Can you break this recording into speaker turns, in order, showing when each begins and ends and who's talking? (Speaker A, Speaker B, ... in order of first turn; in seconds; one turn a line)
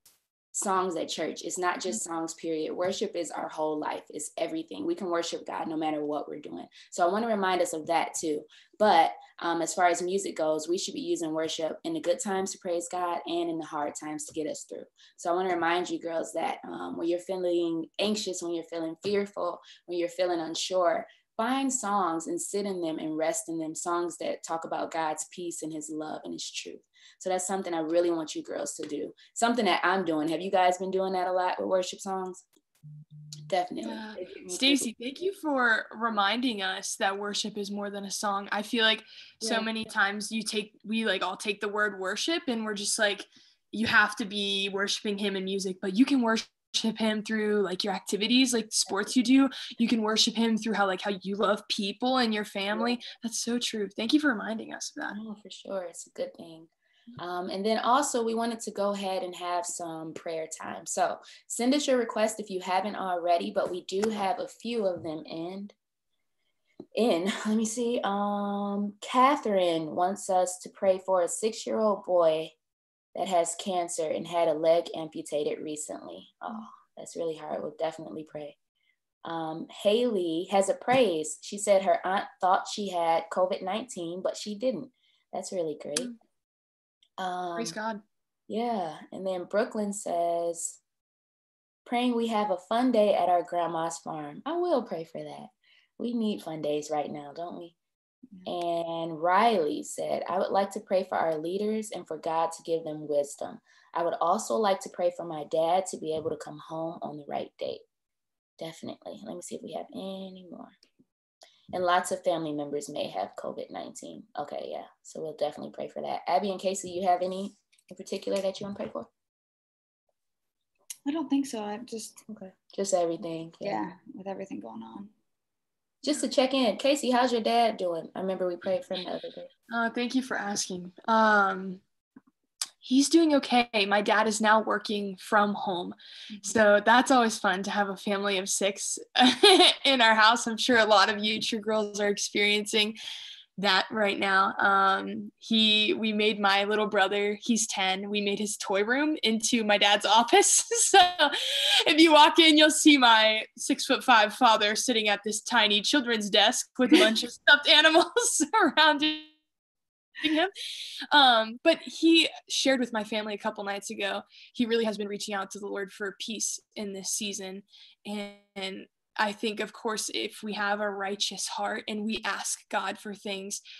Speaker A: 0.5-32.4
Speaker A: 33.5-34.9
Speaker B: 33.8-55.1
Speaker A: 39.4-39.7
Speaker A: 55.1-65.7
Speaker A: 66.9-72.5
Speaker A: 73.1-78.5
Speaker A: 79.2-86.1
Speaker A: 87.2-87.8
Speaker B: 87.5-88.0
Speaker A: 88.5-90.8
Speaker A: 91.8-97.7
Speaker A: 98.4-107.8
Speaker A: 108.6-110.7
Speaker A: 111.7-119.1
Speaker C: 121.0-122.2
Speaker A: 122.3-123.8
Speaker C: 123.6-125.1
Speaker A: 126.0-129.5
Speaker B: 129.7-131.8
Speaker B: 132.8-143.0
Speaker B: 143.6-151.3
Speaker B: 151.8-159.3
Speaker B: 160.2-160.5
Speaker B: 161.1-173.6